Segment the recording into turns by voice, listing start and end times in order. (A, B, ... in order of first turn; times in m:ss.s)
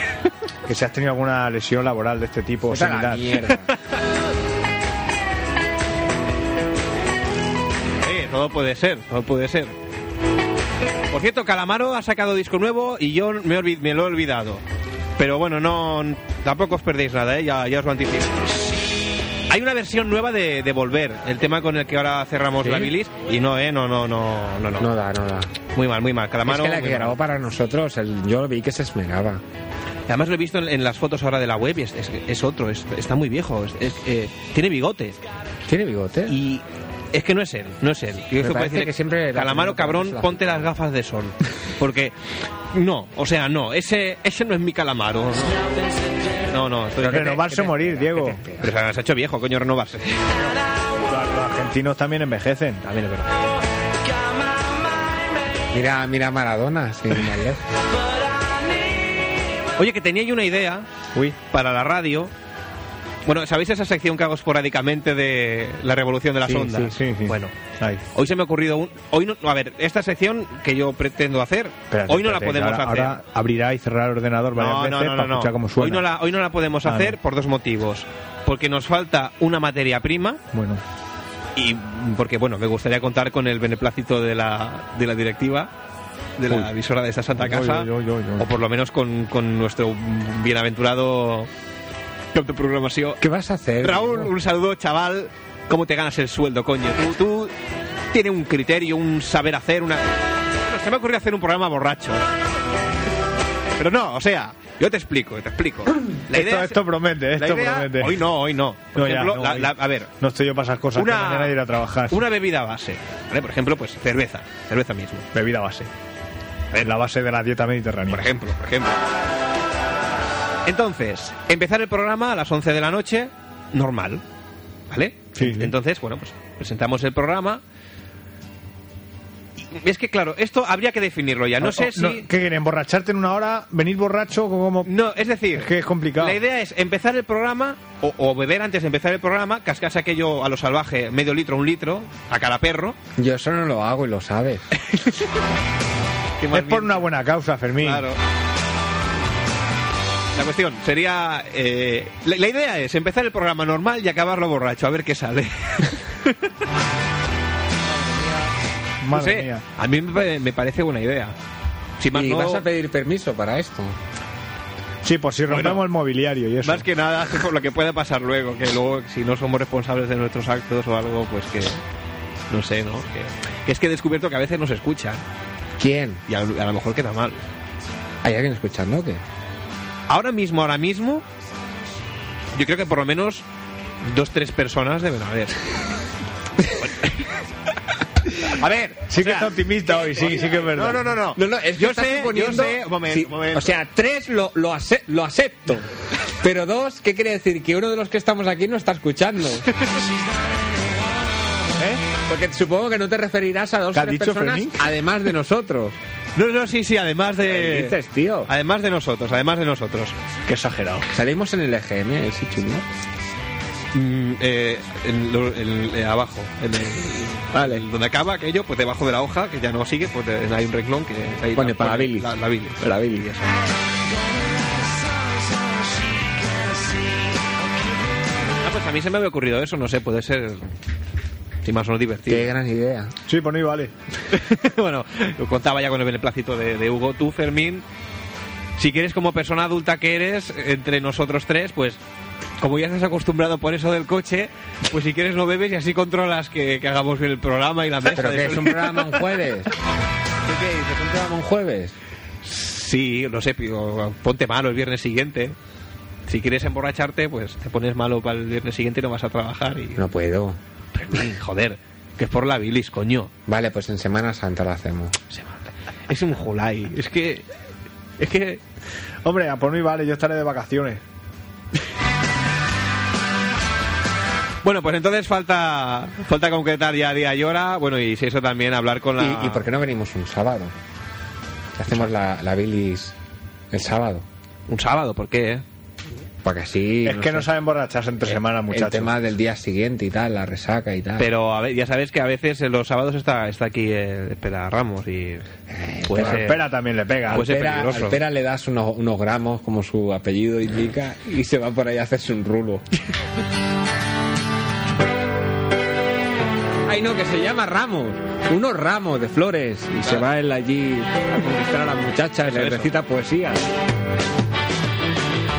0:00.6-0:03.2 A
0:02.7-0:03.7 B
0:08.0-0:09.7 C
0:11.1-0:14.6 C
0:15.2-0:18.5 C
0:19.5-0:24.9 C
0:22.6-0:22.9 B
0:24.8-0:25.5 B
0:25.7-0:27.2 C
0:26.4-0:29.4 B
0:30.1-0:35.2 C
0:35.7-0:36.4 B
0:36.3-0:42.1 C
0:38.4-0:40.6 B
0:42.7-0:45.6 C
0:46.5-0:47.7 C
0:47.0-0:48.7 B
0:47.0-0:48.4 A
0:48.6-0:50.4 C
0:51.1-0:52.8 A
0:52.8-0:53.3 C
0:55.7-0:57.6 B
0:59.8-1:00.9 C
1:01.5-1:02.3 C
1:03.2-1:07.5 C
1:06.4-1:06.9 B
1:06.8-1:08.0 A
1:08.1-1:13.2 C
1:11.9-1:16.0 A
1:14.6-1:20.4 C
1:16.8-1:17.2 A
1:20.5-1:20.8 A
1:21.6-1:25.7 C
1:26.4-1:31.5 C
1:27.4-1:28.5 A
1:32.3-1:33.2 C
1:33.2-1:34.3 B
1:33.8-1:37.5 C
1:38.1-1:40.0 C
1:40.6-1:42.2 C
1:43.8-1:46.8 C
1:46.3-1:48.2 A
1:47.3-1:50.1 C
1:48.9-1:52.2 A
1:50.9-1:51.6 C
1:52.1-1:55.3 C
1:55.3-1:55.9 A
1:56.8-1:58.2 A
1:58.1-1:59.0 C
2:00.6-2:04.2 C
2:04.9-2:07.6 C
2:05.4-2:05.7 A
2:09.7-2:12.2 C
2:11.6-2:14.9 A
2:14.8-2:23.0 C
2:15.5-2:16.4 A
2:23.2-2:24.6 B
2:24.9-2:25.2 C
2:26.4-2:27.1 C
2:26.5-2:28.0 A
2:27.8-2:28.2 C
2:30.3-2:36.5 C
2:39.0-2:39.6 A
2:39.1-2:41.3 C
2:42.0-2:42.6 C
2:42.1-2:44.0 B
2:45.0-2:46.8 A
2:45.5-2:45.8 C
2:46.6-2:51.8 C
2:52.5-2:55.2 C
2:55.8-2:56.2 B
2:56.3-2:57.4 C
2:58.2-2:59.2 B
3:00.1-3:01.2 C
3:02.5-3:03.4 C
3:04.0-3:05.7 C
3:06.8-3:07.3 C
3:08.4-3:09.5 C
3:09.1-3:11.1 A
3:10.3-3:13.7 C
3:11.3-3:19.6 B
3:21.8-3:22.0 A
3:22.2-3:25.9 B
3:23.9-3:24.8 A
3:26.4-3:28.0 C
3:27.4-3:28.5 B
3:28.5-3:30.1 C
3:30.5-3:31.1 A
3:31.1-3:32.9 B
3:33.9-3:43.5 C
3:37.5-3:37.8 B
3:41.6-3:43.3 B
3:48.6-3:50.6 C
3:51.6-3:52.5 C
3:52.3-3:53.1 B
3:53.3-3:53.9 A
3:54.3-3:57.8 C
3:58.8-4:02.0 C
4:02.6-4:09.3 C
4:08.1-4:09.7 B
4:10.5-4:10.9 C
4:10.8-4:12.0 B
4:12.4-4:15.5 C
4:16.3-4:20.0 C
4:20.0-4:20.6 B
4:21.0-4:23.3 C
4:23.5-4:25.2 B
4:25.3-4:27.4 C
4:28.2-4:28.6 C
4:29.2-4:31.0 A
4:34.6-4:39.6 C
4:39.2-4:40.7 B
4:41.7-4:43.1 B
4:43.7-4:44.2 B
4:44.7-4:45.6 C
4:46.4-4:47.5 B
4:47.0-4:49.1 A
4:48.7-4:51.3 B
4:51.2-4:55.4 C
4:55.7-4:56.6 B
4:56.1-4:56.6 C
4:56.2-4:57.7 A
4:57.3-5:02.8 B
4:57.3-4:58.2 C
5:06.8-5:13.7 B
5:12.5-5:12.9 C